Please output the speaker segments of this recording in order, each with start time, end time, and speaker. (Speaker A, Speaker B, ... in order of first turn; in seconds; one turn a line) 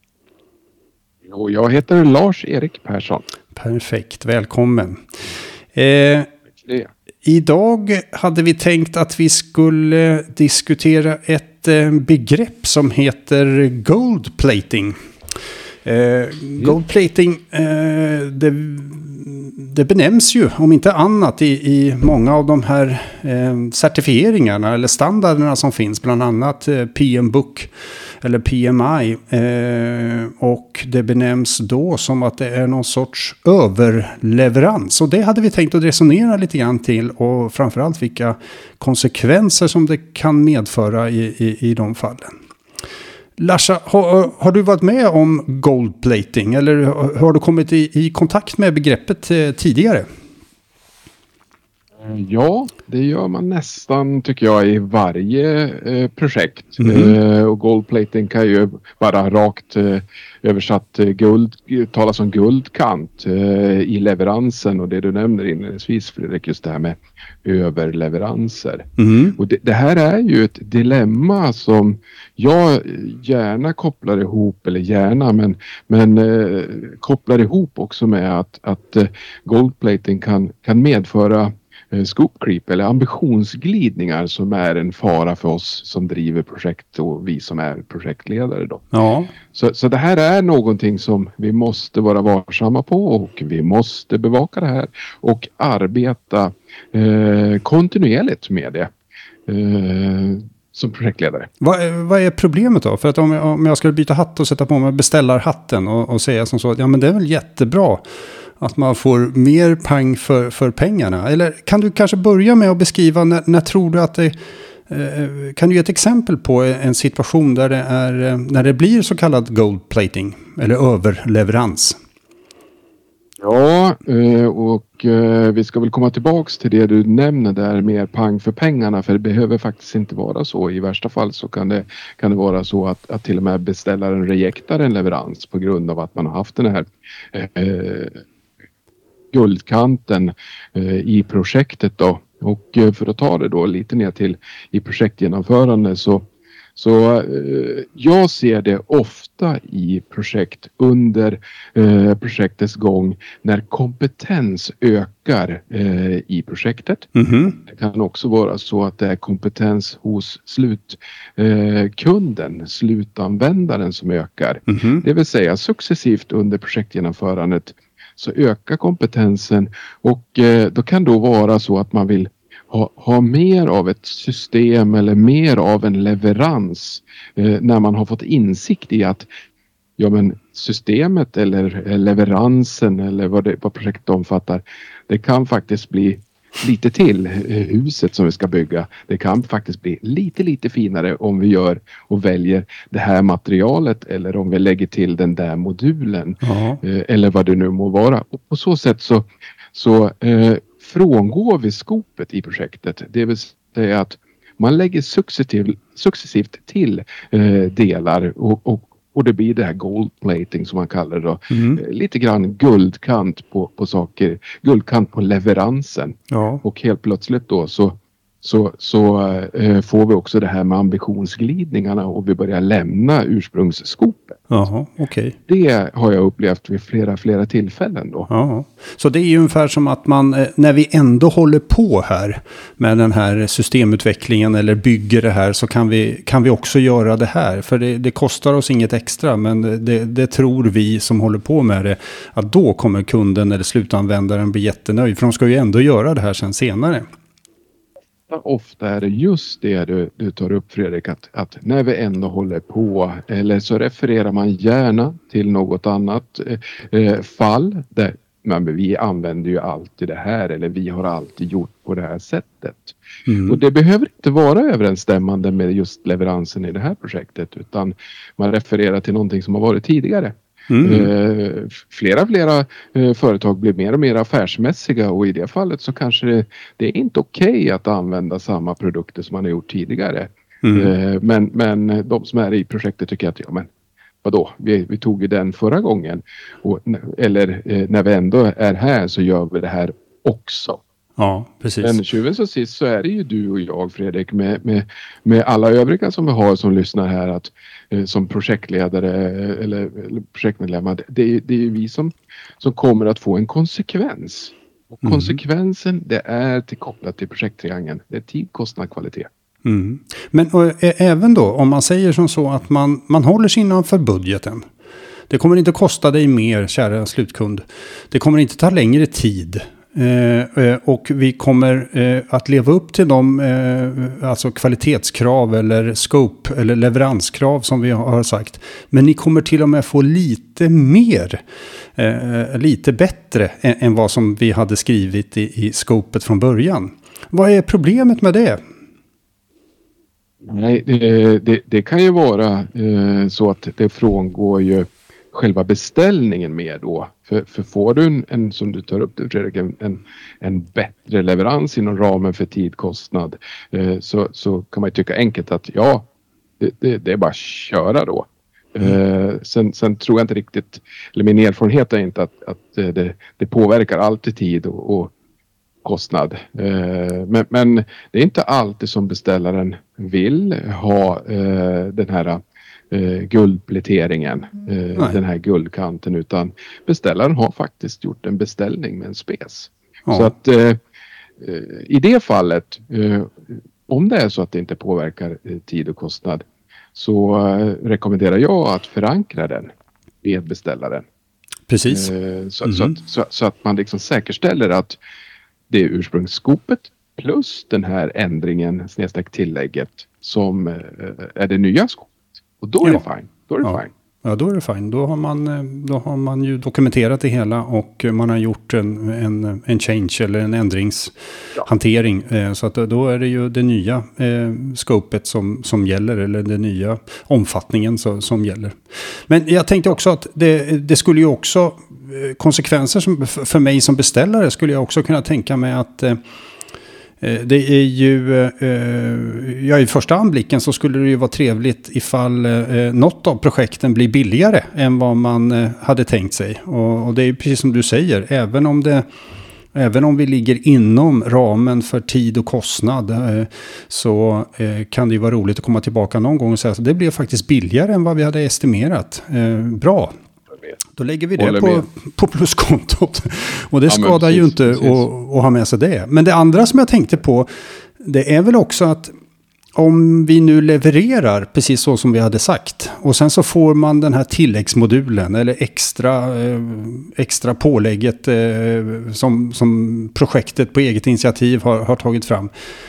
Speaker A: 1.3-3.3
Speaker B: 3.5-5.0
Speaker B: 5.8-6.3
Speaker A: 6.6-6.9
Speaker B: 7.2-15.0
Speaker B: 15.8-27.7
Speaker B: 28.2-42.3
Speaker B: 43.4-50.1
Speaker A: 52.0-88.8
Speaker B: 56.8-57.2
Speaker B: 69.0-69.4
Speaker B: 88.9-89.3
Speaker A: 89.5-98.9
Speaker A: 99.5-101.5
Speaker B: 101.6-108.0
Speaker B: 108.6-114.3
Speaker B: 114.9-122.0
Speaker A: 123.4-138.2
Speaker A: 139.3-157.1
Speaker B: 157.2-157.6
Speaker A: 157.6-179.3
Speaker B: 164.7-165.0
Speaker A: 180.0-224.5
Speaker B: 196.4-196.8
Speaker B: 211.5-211.8
Speaker B: 216.3-216.6
Speaker B: 224.5-225.4
Speaker A: 225.5-228.3
Speaker B: 228.3-247.1
Speaker A: 248.3-283.7
Speaker B: 263.3-263.6
Speaker B: 270.7-271.1
Speaker B: 280.6-280.9
Speaker A: 284.2-290.8
Speaker B: 291.2-292.0
Speaker A: 291.8-309.3
Speaker B: 305.0-305.4
Speaker B: 309.6-314.7
Speaker B: 315.3-331.4
Speaker B: 332.0-338.6
Speaker A: 340.4-356.1
Speaker A: 356.6-365.1
Speaker A: 365.8-380.8
Speaker B: 380.1-380.3
Speaker A: 381.4-391.1
Speaker B: 391.7-392.1
Speaker A: 391.9-395.0
Speaker B: 392.6-392.9
Speaker A: 395.7-403.9
Speaker B: 403.6-418.8
Speaker B: 419.3-426.2
Speaker B: 427.2-439.1
Speaker B: 439.7-450.1
Speaker B: 451.0-457.5
Speaker A: 451.4-451.9
Speaker A: 453.9-455.1
Speaker B: 458.0-459.1
Speaker B: 459.8-472.5